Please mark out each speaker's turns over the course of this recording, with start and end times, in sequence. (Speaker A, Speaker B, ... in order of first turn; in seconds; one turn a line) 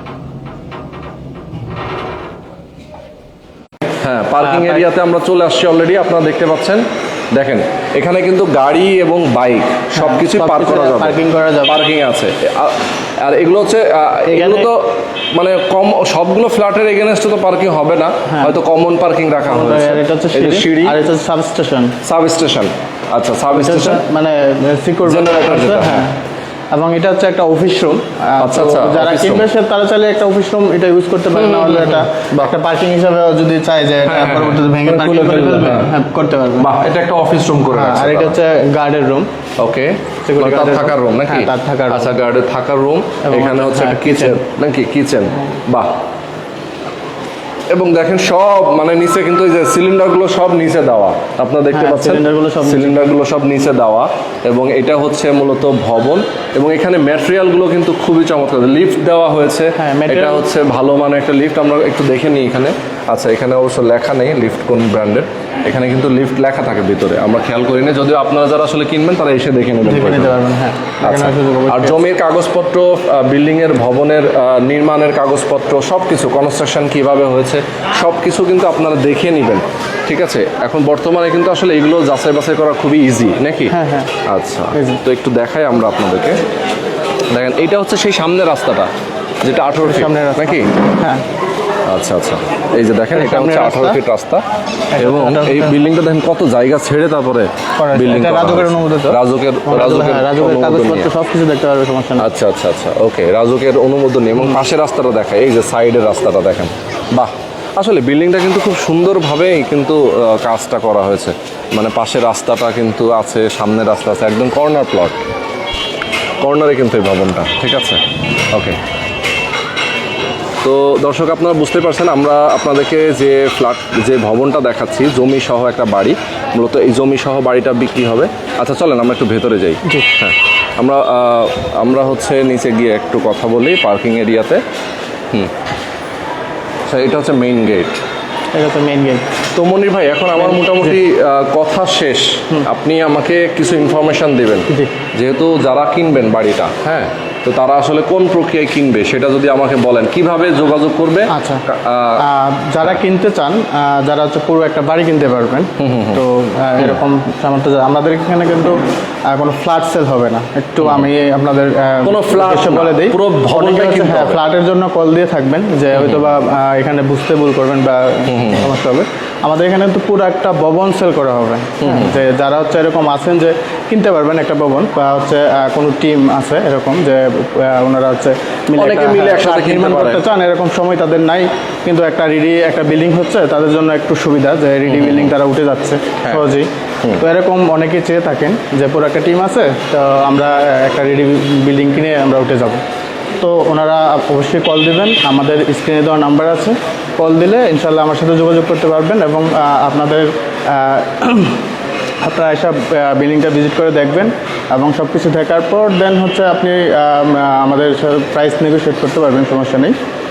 Speaker A: 4.0-6.8
Speaker A: 7.3-21.0
Speaker B: 9.9-11.8
Speaker B: 14.3-14.7
Speaker B: 18.3-18.6
Speaker B: 19.4-22.0
Speaker A: 22.0-24.0
Speaker B: 23.6-26.2
Speaker A: 25.0-26.1
Speaker B: 26.7-36.7
Speaker A: 28.4-29.5
Speaker A: 31.3-32.5
Speaker A: 34.0-36.0
Speaker A: 36.6-38.4
Speaker B: 37.7-39.3
Speaker A: 39.6-45.9
Speaker B: 40.2-42.1
Speaker B: 43.2-44.4
Speaker A: 47.7-70.4
Speaker B: 51.7-53.0
Speaker B: 59.8-60.5
Speaker B: 69.8-72.0
Speaker A: 71.0-86.4
Speaker B: 83.7-84.1
Speaker B: 84.7-85.0
Speaker A: 87.3-88.9
Speaker A: 89.4-90.8
Speaker B: 89.8-91.2
Speaker A: 91.9-94.4
Speaker B: 93.1-94.0
Speaker B: 94.9-95.8
Speaker A: 95.0-101.1
Speaker B: 97.8-102.3
Speaker A: 102.2-115.2
Speaker B: 104.4-104.6
Speaker A: 116.4-118.8
Speaker A: 120.6-134.6
Speaker A: 136.9-138.0
Speaker B: 138.5-139.4
Speaker A: 139.5-152.2
Speaker B: 140.4-141.0
Speaker B: 144.7-145.0
Speaker B: 151.3-151.6
Speaker B: 152.2-158.8
Speaker A: 155.8-156.2
Speaker B: 159.3-192.8
Speaker A: 160.8-161.1
Speaker A: 162.1-164.4
Speaker A: 165.9-166.3
Speaker A: 168.3-168.7
Speaker A: 171.8-172.2
Speaker A: 178.8-180.2
Speaker A: 184.9-185.3
Speaker A: 186.2-186.5
Speaker B: 193.4-201.6
Speaker B: 202.2-209.9